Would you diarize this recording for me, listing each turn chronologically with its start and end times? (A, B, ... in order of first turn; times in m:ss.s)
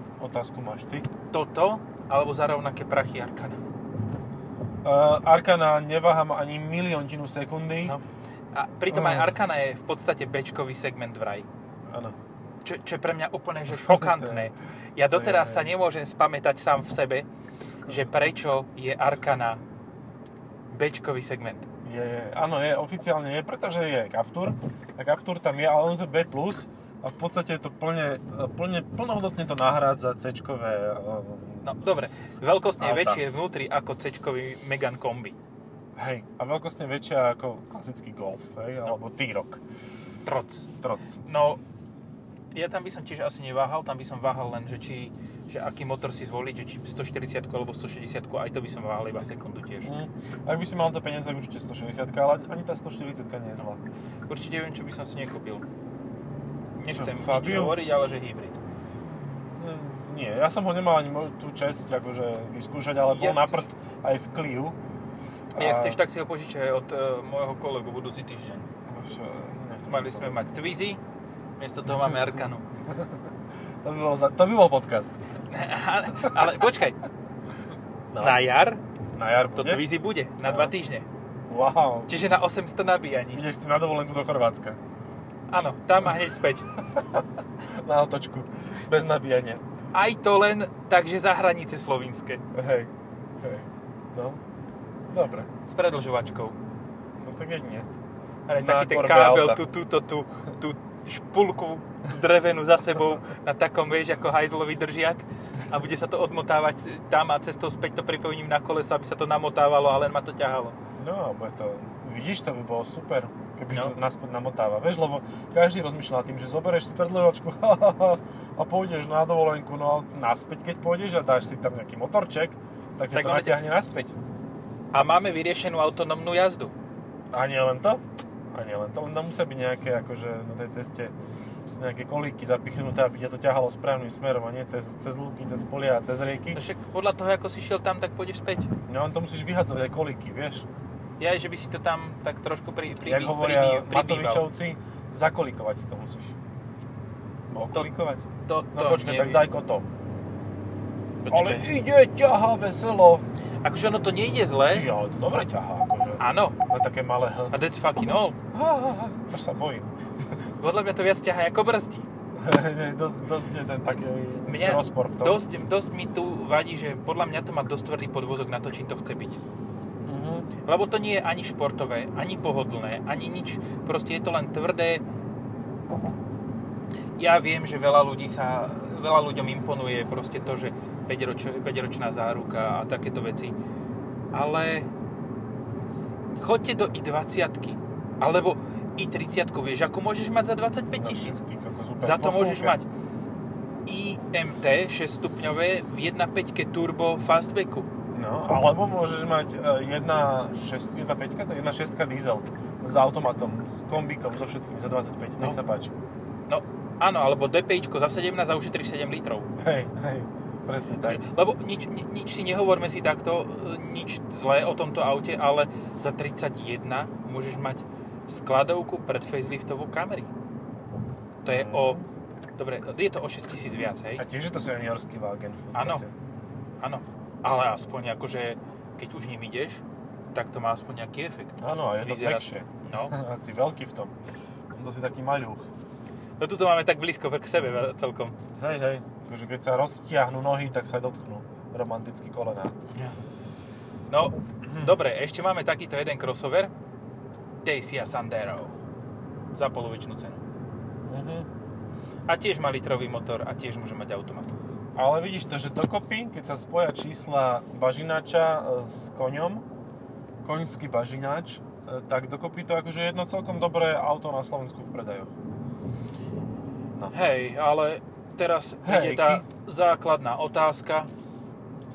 0:00.2-0:01.1 A
0:01.3-0:03.6 B
0:04.8-0:08.0 A
0:07.8-0:11.5 B
0:08.9-0:09.3 A
0:11.9-0:12.2 A
0:12.6-0:17.2 B
0:13.7-0:14.5 A
0:15.1-0:15.7 A
0:17.8-0:19.6 B
0:20.7-0:21.7 B
0:21.8-0:33.2 A
0:31.6-0:35.3 B
0:36.0-0:39.6 A
0:40.2-0:40.7 B
0:40.8-0:41.2 A
0:41.2-0:41.6 B
0:42.5-0:49.9 B
0:49.8-0:53.8 A
0:54.3-0:55.6 B
0:56.8-0:58.6 B
0:56.9-0:57.8 A
0:59.6-1:04.8 A
1:03.0-1:03.6 B
1:05.6-1:06.0 A
1:05.6-1:08.7 B
1:08.8-1:10.4 A
1:09.9-1:11.0 B
1:11.6-1:12.6 B
1:12.8-1:13.3 A
1:13.8-1:15.2 A
1:15.5-1:17.0 B
1:18.1-1:18.4 A
1:18.2-1:18.8 B
1:19.2-1:19.9 A
1:19.6-1:21.0 B
1:20.4-1:20.7 A
1:21.5-1:22.1 A
1:22.1-1:23.4 B
1:23.3-1:24.8 A
1:25.5-1:26.7 B
1:26.8-1:29.6 A
1:29.9-1:32.4 B
1:32.5-1:34.4 A
1:35.1-1:35.5 A
1:35.6-1:36.6 B
1:37.2-1:37.9 A
1:38.5-1:50.8 B
1:38.6-1:39.7 A
1:51.0-2:04.1 A
1:53.7-1:54.0 B
2:03.1-2:03.6 B
2:04.9-2:06.7 B
2:07.3-2:11.1 A
2:11.8-2:16.6 A
2:16.5-2:18.7 B
2:18.8-2:20.6 A
2:21.2-2:24.5 B
2:23.0-2:26.4 A
2:27.5-2:29.9 A
2:28.4-2:29.4 B
2:31.2-2:31.7 B
2:31.3-2:33.2 A
2:33.6-2:34.9 B
2:34.7-2:37.6 A
2:36.2-2:36.6 B
2:37.5-2:38.4 B
2:38.5-2:39.9 A
2:40.6-2:42.1 B
2:42.4-2:45.4 A
2:44.4-2:49.4 B
2:50.0-2:50.5 A
2:50.6-2:55.0 B
2:57.2-3:03.5 B
3:04.3-3:04.9 B
3:06.3-3:11.4 B
3:10.9-3:12.8 A
3:12.0-3:12.9 B
3:13.8-3:17.9 B
3:18.1-3:25.9 A
3:26.5-3:29.5 B
3:29.6-3:31.2 A
3:31.0-3:40.3 B
3:41.4-3:42.0 B
3:41.5-3:42.1 A
3:42.6-3:44.2 B
3:44.2-3:46.1 A
3:45.7-3:46.0 B
3:46.8-3:53.2 B
3:51.6-3:54.1 A
3:54.7-3:55.7 A
3:56.4-3:58.4 B
3:58.6-4:02.7 A
4:02.9-4:03.2 B
4:04.1-4:06.7 B
4:04.6-4:05.0 A
4:07.6-4:08.8 B
4:09.5-4:10.4 B
4:11.0-4:11.5 A
4:12.3-4:14.6 B
4:14.9-4:19.6 A
4:20.4-4:25.3 A
4:27.1-4:31.1 B
4:28.8-4:29.4 A